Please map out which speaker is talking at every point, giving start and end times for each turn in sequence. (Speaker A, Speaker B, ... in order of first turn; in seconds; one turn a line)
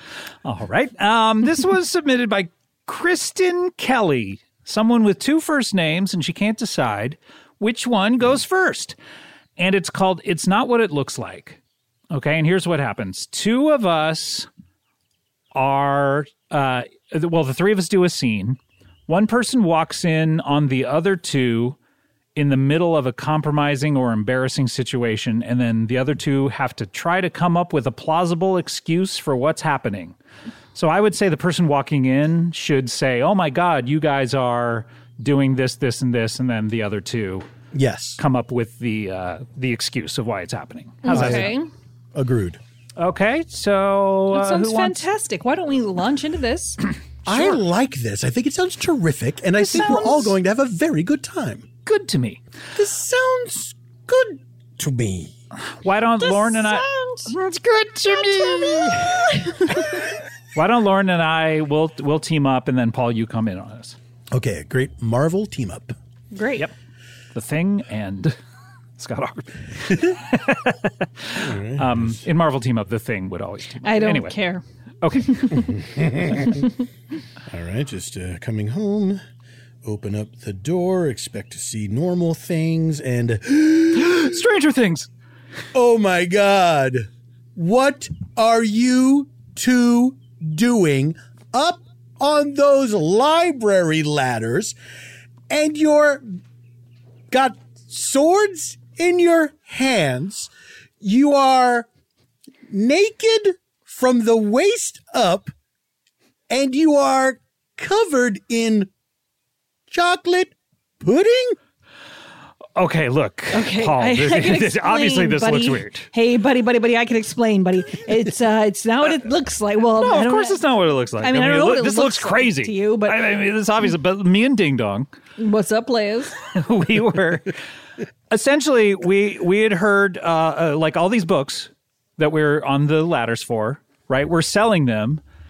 Speaker A: 0.5-9.0
Speaker A: 9.6-11.6
Speaker A: 12.1-14.5
Speaker A: 15.5-21.8
Speaker A: 22.4-30.1
Speaker A: 30.8-37.5
Speaker B: 37.7-38.2
Speaker A: 38.2-41.5
Speaker C: 41.0-41.7
Speaker B: 41.1-41.5
Speaker B: 42.1-42.6
Speaker A: 43.0-45.1
Speaker C: 44.3-46.8
Speaker B: 47.3-51.7
Speaker A: 49.6-50.3
Speaker A: 51.9-52.4
Speaker B: 52.8-55.3
Speaker A: 55.8-59.3
Speaker C: 56.2-57.4
Speaker C: 58.1-60.0
Speaker A: 60.5-64.0
Speaker B: 64.3-65.9
Speaker C: 66.3-66.7
Speaker A: 67.3-68.3
Speaker A: 69.0-74.4
Speaker B: 71.4-72.2
Speaker C: 73.8-74.6
Speaker A: 75.0-75.6
Speaker C: 75.1-75.8
Speaker B: 75.5-76.6
Speaker C: 76.4-76.7
Speaker B: 77.5-79.2
Speaker B: 79.8-84.4
Speaker A: 84.0-85.1
Speaker B: 85.7-94.8
Speaker B: 95.5-96.3
Speaker B: 97.3-101.9
Speaker B: 102.7-105.5
Speaker B: 106.5-108.9
Speaker B: 109.9-111.6
Speaker A: 112.8-116.1
Speaker C: 113.5-120.6
Speaker A: 120.0-125.1
Speaker C: 121.2-123.2
Speaker C: 125.4-126.4
Speaker A: 126.5-127.6
Speaker A: 128.3-135.2